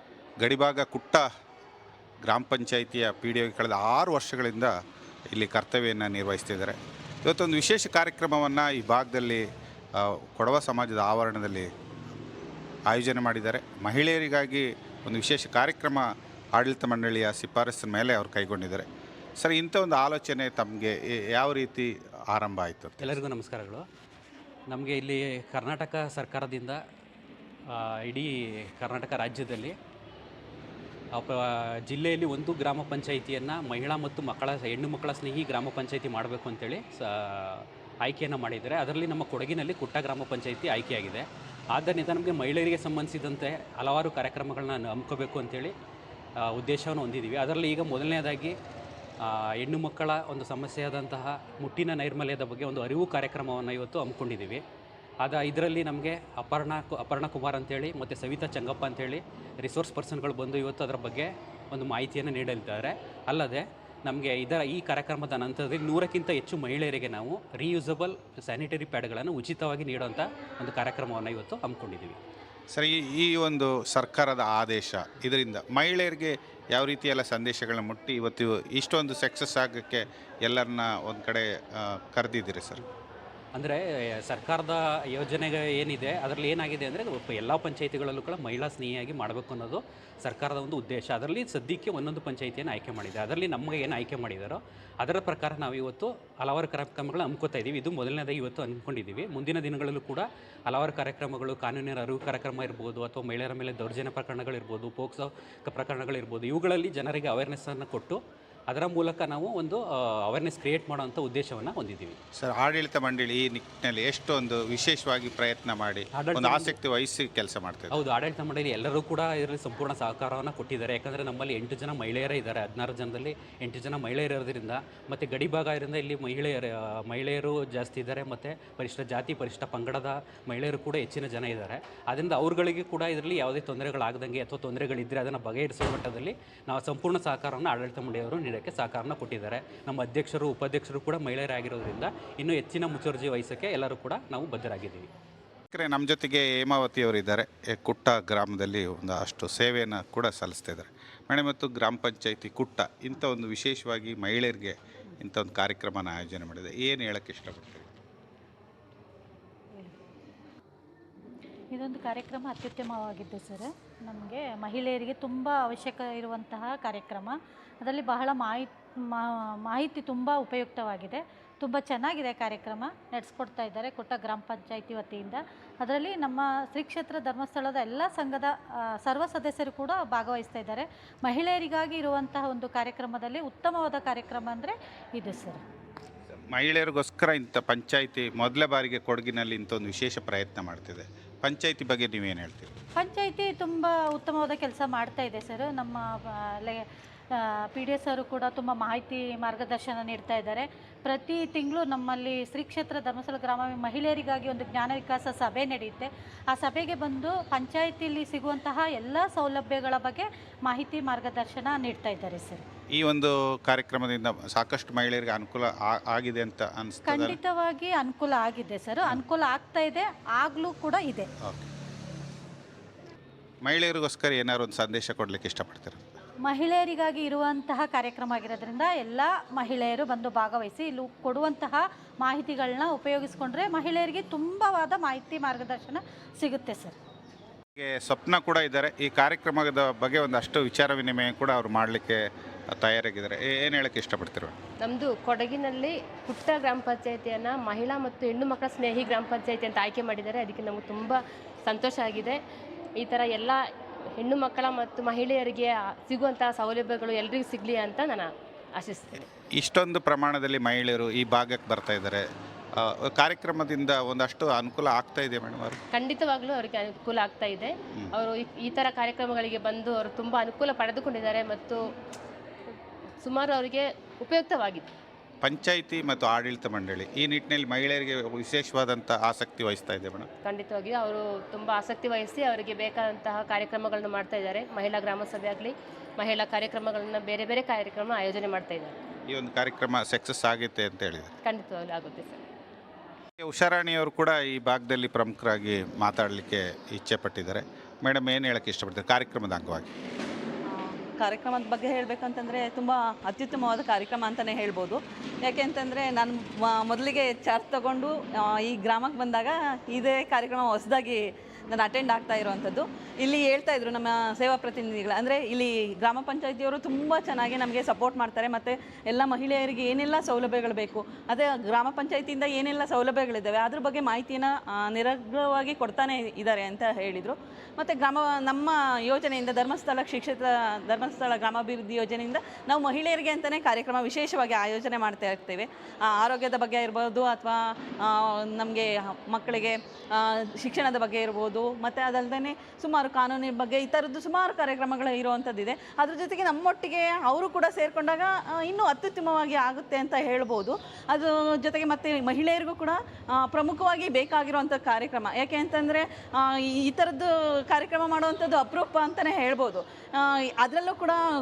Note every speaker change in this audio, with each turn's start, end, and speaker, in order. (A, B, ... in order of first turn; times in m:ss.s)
0:00.4-0:01.3 A
0:02.2-0:04.7 A
0:05.3-0:09.4 A
0:10.0-0:11.7 A
0:12.9-0:18.8 A
0:19.4-0:23.2 A
0:23.0-0:23.8 B
0:24.7-0:26.8 B
0:27.7-0:29.7 B
0:31.2-0:45.7 B
0:46.5-0:48.5 B
0:49.2-0:54.6 B
0:55.2-1:12.2 B
1:12.7-1:22.8 A
1:23.5-1:52.2 B
1:52.4-1:58.0 A
1:56.2-1:56.8 B
1:57.9-2:25.1 B
2:25.7-2:37.9 A
2:41.7-3:05.6 C
3:06.5-3:12.7 A
3:13.0-3:32.6 C
3:33.0-3:37.4 A
3:37.0-3:41.3 C
3:43.6-3:46.1 A
3:46.4-3:57.0 C
3:57.8-4:02.2 A
4:02.7-4:04.6 A
4:04.8-4:12.4 D
4:13.0-4:13.6 D
4:14.2-4:18.3 D
4:18.8-4:19.2 D
4:19.6-4:22.2 A
4:22.8-4:25.8 A
4:26.0-4:31.8 D
4:33.2-4:34.9 D
4:35.4-4:40.3 A
4:40.4-4:49.0 D
4:49.3-4:51.3 A
4:51.4-4:52.4 D
4:53.4-4:59.9 A
5:00.6-6:01.2 E